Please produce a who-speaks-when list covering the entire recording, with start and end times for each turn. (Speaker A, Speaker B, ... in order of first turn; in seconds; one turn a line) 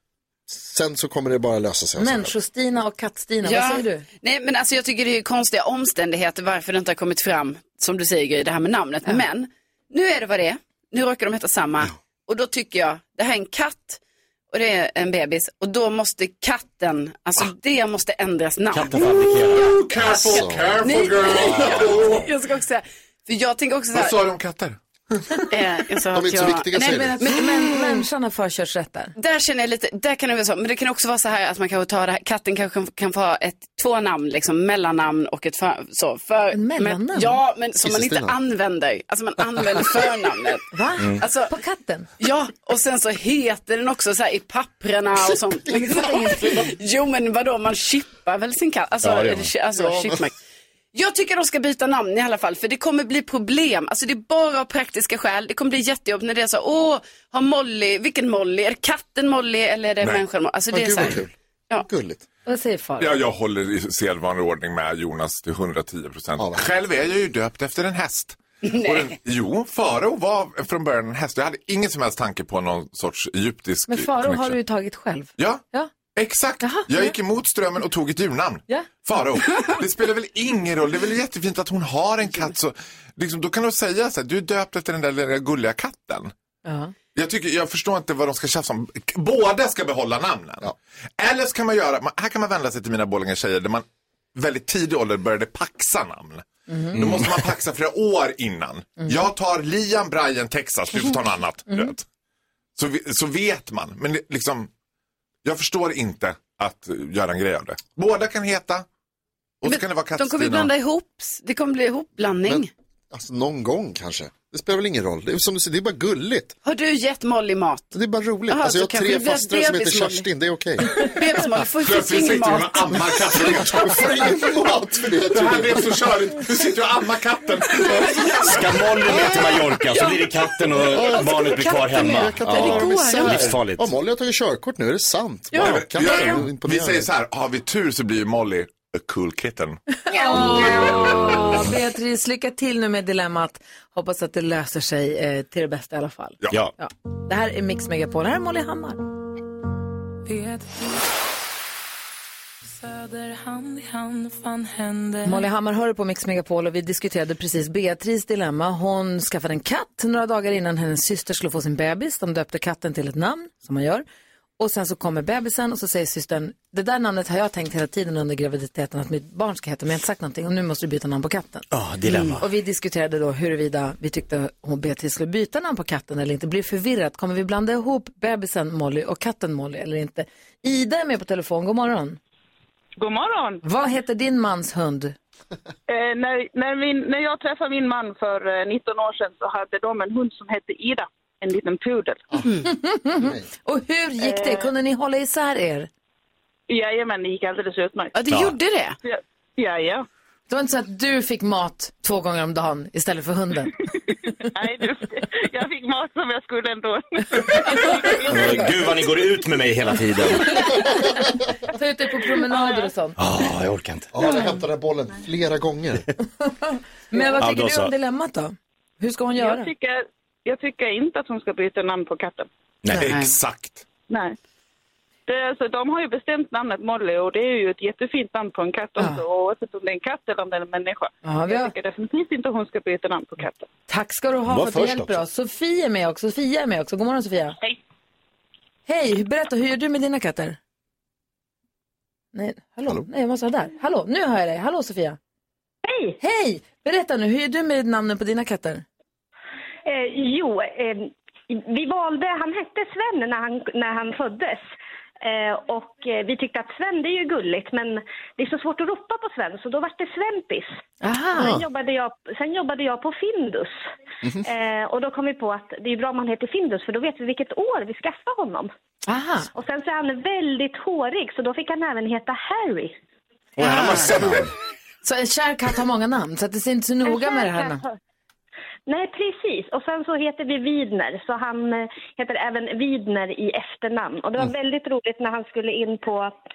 Speaker A: 0.5-2.3
Speaker B: 2.0-4.0
Speaker C: 3.4-14.0
Speaker C: 14.5-24.2
Speaker D: 18.7-19.8
Speaker E: 19.7-22.3
Speaker A: 20.3-20.8
Speaker E: 23.9-25.2
Speaker C: 25.5-27.9
Speaker A: 26.1-27.2
Speaker B: 26.8-29.1
Speaker C: 29.2-40.7
Speaker B: 36.5-37.4
Speaker A: 37.8-38.4
Speaker B: 40.7-42.1
Speaker D: 41.0-41.2
Speaker C: 41.2-41.5
Speaker C: 42.2-50.3
Speaker A: 45.7-46.7
Speaker D: 49.0-49.5
Speaker A: 49.8-50.2
Speaker C: 50.9-61.9
Speaker A: 60.7-62.2
Speaker B: 62.5-63.2
Speaker E: 63.0-74.6
Speaker A: 66.4-66.7
Speaker C: 68.7-69.1
Speaker B: 73.9-75.9
Speaker E: 75.4-75.6
Speaker E: 76.2-86.3
Speaker B: 76.6-77.1
Speaker B: 86.7-86.9
Speaker E: 87.2-102.0
Speaker B: 96.7-97.0
Speaker D: 97.0-97.5
Speaker E: 102.8-104.7
Speaker E: 105.5-108.9
Speaker E: 109.6-110.7
Speaker C: 109.6-112.7
Speaker A: 112.5-116.5
Speaker C: 116.7-117.9
Speaker A: 117.9-121.4
Speaker C: 118.5-120.3
Speaker C: 120.9-123.8
Speaker E: 121.8-124.1
Speaker A: 123.3-126.0
Speaker E: 125.3-128.7
Speaker D: 128.4-133.9
Speaker A: 131.0-137.1
Speaker C: 131.5-133.4
Speaker C: 135.5-136.4
Speaker E: 135.6-139.8
Speaker B: 140.1-149.0
Speaker C: 140.1-141.3
Speaker F: 150.3-150.9
Speaker F: 152.8-155.4
Speaker B: 155.2-164.1
Speaker B: 164.6-171.7
Speaker D: 171.7-172.4
Speaker B: 172.4-182.2
Speaker G: 183.0-183.6
Speaker B: 183.6-185.2
Speaker G: 185.9-192.2
Speaker B: 192.6-195.9
Speaker A: 193.2-193.5
Speaker G: 196.7-198.2
Speaker C: 198.1-199.0
Speaker D: 198.3-198.6
Speaker G: 199.0-200.1
Speaker B: 200.5-203.8
Speaker G: 204.5-208.7
Speaker D: 208.2-210.8
Speaker B: 210.6-211.1
Speaker B: 211.7-213.2
Speaker G: 212.5-212.9
Speaker D: 213.2-214.1
Speaker A: 214.1-216.1
Speaker B: 216.4-219.7
Speaker D: 217.4-217.9
Speaker G: 219.4-222.5
Speaker D: 222.8-223.2
Speaker E: 223.0-223.9
Speaker G: 224.1-224.4
Speaker G: 225.3-233.7
Speaker B: 231.2-231.7
Speaker B: 233.9-237.6
Speaker D: 234.5-235.2
Speaker B: 238.9-240.6
Speaker B: 242.3-245.2
Speaker H: 245.8-246.2
Speaker B: 246.2-248.8
Speaker H: 249.9-254.6
Speaker H: 255.2-260.7
Speaker B: 261.0-261.6
Speaker A: 261.4-261.6
Speaker H: 261.4-263.8
Speaker H: 264.4-268.7
Speaker B: 269.1-269.5
Speaker H: 269.5-272.9
Speaker D: 273.6-274.5
Speaker C: 273.6-274.2
Speaker B: 275.0-277.9
Speaker H: 277.1-277.9
Speaker H: 278.9-286.3